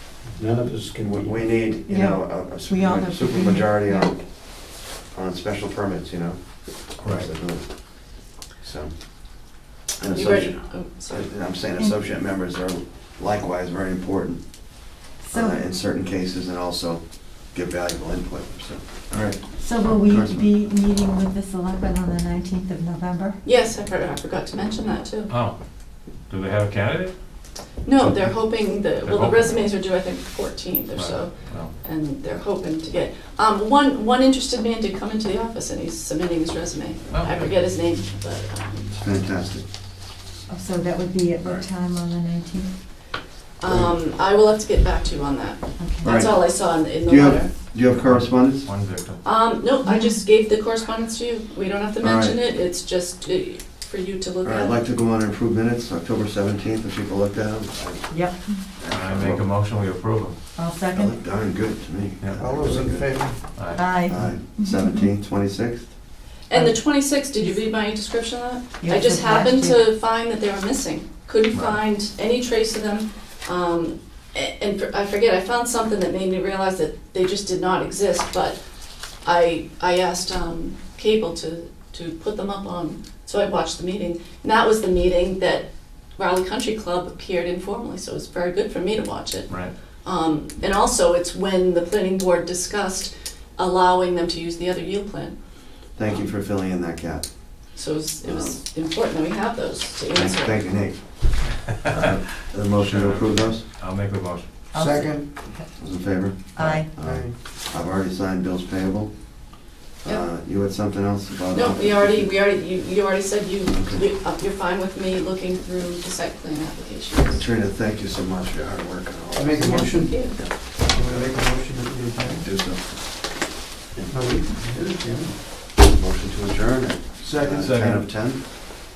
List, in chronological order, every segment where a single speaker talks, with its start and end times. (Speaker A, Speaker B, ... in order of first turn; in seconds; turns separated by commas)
Speaker A: 0.4-0.8, Speaker B: 1.0-14.6, Speaker C: 1.9-4.1, Speaker D: 7.0-7.3, Speaker E: 10.1-11.3, Speaker C: 15.2-15.6, Speaker B: 15.3-20.5, Speaker C: 19.6-23.4, Speaker E: 23.4-25.3, Speaker D: 25.3-29.7, Speaker E: 27.8-39.0, Speaker D: 30.9-31.7, Speaker D: 37.1-37.5, Speaker B: 38.9-39.7, Speaker C: 40.5-42.7, Speaker E: 43.6-47.5, Speaker C: 45.8-46.1, Speaker B: 46.0-48.7, Speaker D: 47.9-49.2, Speaker E: 49.2-54.8, Speaker C: 49.8-50.2, Speaker B: 52.0-52.4, Speaker B: 54.4-59.5, Speaker C: 58.1-58.6, Speaker D: 58.9-60.4, Speaker C: 60.6-61.1, Speaker B: 60.9-63.3, Speaker A: 62.4-63.5, Speaker D: 63.5-63.8, Speaker C: 63.7-65.0, Speaker B: 64.0-65.9, Speaker E: 66.5-78.6, Speaker C: 66.5-67.6, Speaker C: 68.8-69.8, Speaker D: 71.5-71.8, Speaker E: 79.2-95.4, Speaker B: 96.0-98.6, Speaker E: 97.8-100.6, Speaker B: 100.1-103.7, Speaker D: 102.7-104.5, Speaker C: 104.7-105.5, Speaker A: 104.7-105.5, Speaker B: 105.8-109.5, Speaker C: 106.5-106.9, Speaker A: 107.0-107.4, Speaker B: 110.0-112.3, Speaker E: 111.5-117.4, Speaker B: 113.7-114.0, Speaker B: 117.3-121.4, Speaker A: 119.3-122.5, Speaker E: 119.6-120.4, Speaker B: 122.3-123.3, Speaker A: 124.1-125.4, Speaker B: 125.8-128.4, Speaker A: 127.2-127.7, Speaker D: 127.5-128.1